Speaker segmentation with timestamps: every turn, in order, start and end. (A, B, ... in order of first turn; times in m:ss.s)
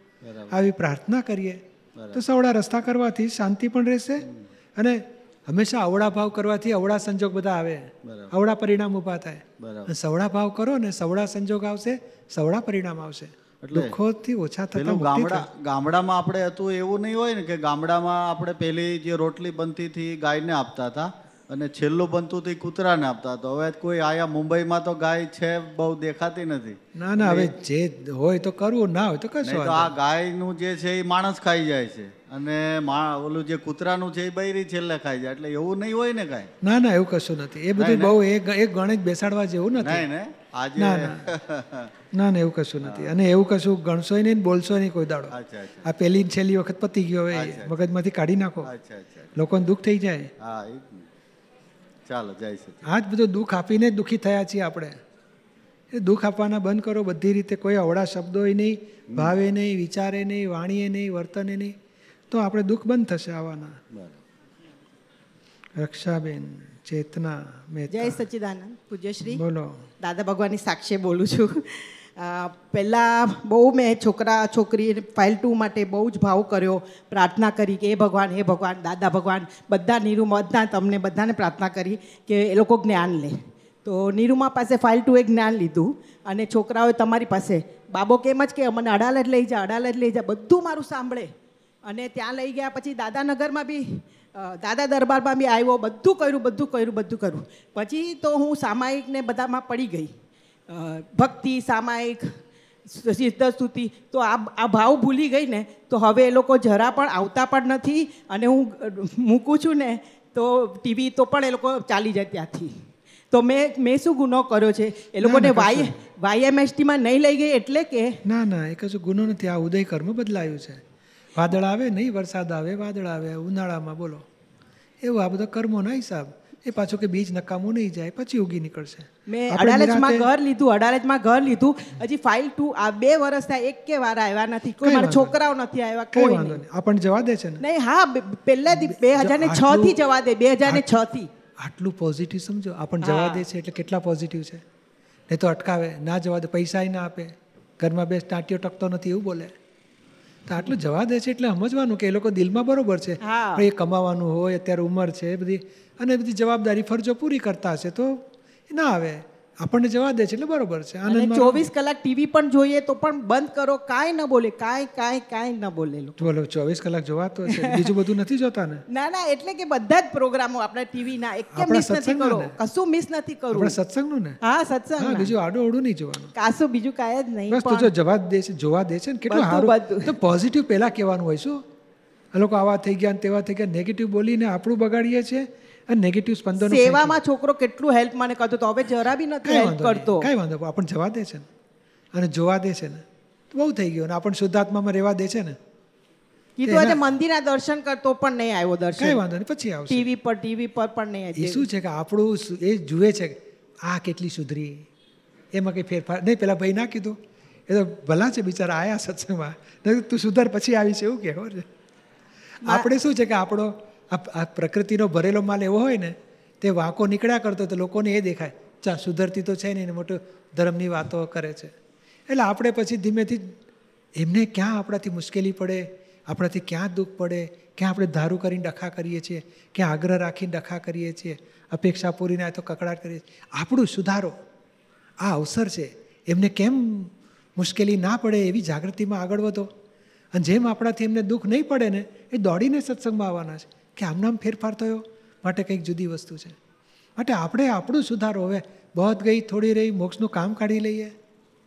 0:00.2-0:00.5 A
0:00.5-0:01.6 B
0:02.0-0:02.2 A
0:02.1-0:15.5 B
0:08.0-0:08.3 A
0:09.6-0:09.9 A
0:13.6-0:13.9 A
0:14.8-0:27.5 A
0:27.0-0:30.0 B
0:29.5-0:36.5 A
0:36.6-0:40.0 B
0:37.8-0:38.1 A
0:39.8-0:41.9 A
0:40.8-0:41.3 B
0:42.1-0:48.7 B
0:42.8-0:43.1 A
0:45.3-0:45.9 A
0:47.3-0:47.9 A
0:48.7-0:49.3 A
0:49.4-0:50.3 B
0:50.4-0:51.1 A
0:52.1-0:52.8 A
0:52.8-0:55.0 B
0:55.9-1:01.8 B
1:02.3-1:03.8 B
1:03.9-1:04.2 A
1:05.8-1:08.2 B
1:07.9-1:09.4 C
1:09.3-1:09.8 B
1:10.0-1:31.3 C
1:31.9-1:40.1 C
1:40.7-1:52.8 C
1:53.3-1:58.2 C
1:55.2-1:55.9 B
1:58.2-2:00.8 B
2:01.4-2:04.2 B
2:05.0-2:10.3 B
2:09.3-2:16.6 C
2:14.8-2:15.4 B
2:16.1-2:17.6 B
2:17.6-2:21.3 C
2:18.7-2:20.0 B
2:21.6-2:24.6 B
2:23.0-2:23.4 C
2:25.3-2:29.5 B
2:30.5-2:41.7 B
2:33.2-2:33.7 C
2:41.1-2:46.2 C
2:46.2-2:48.8 B
2:47.5-2:47.9 C
2:48.9-2:53.8 C
2:51.5-2:52.6 B
2:53.5-2:54.4 B
2:54.4-2:55.3 C
2:55.0-2:56.3 B
2:56.4-2:57.9 C
2:57.5-3:01.6 B
2:59.3-3:00.1 C
3:02.3-3:07.2 B
3:06.6-3:10.3 C
3:09.4-3:11.5 B
3:12.1-3:15.6 B
3:16.6-3:19.2 C
3:16.6-3:17.0 B
3:19.0-3:20.1 B
3:19.9-3:21.7 C
3:21.4-3:24.9 B
3:25.5-3:31.7 B
3:32.6-3:41.7 B
3:42.3-3:43.6 B
3:44.2-3:54.3 B
3:55.2-3:59.7 B
4:00.3-4:06.6 B
4:07.2-4:11.1 B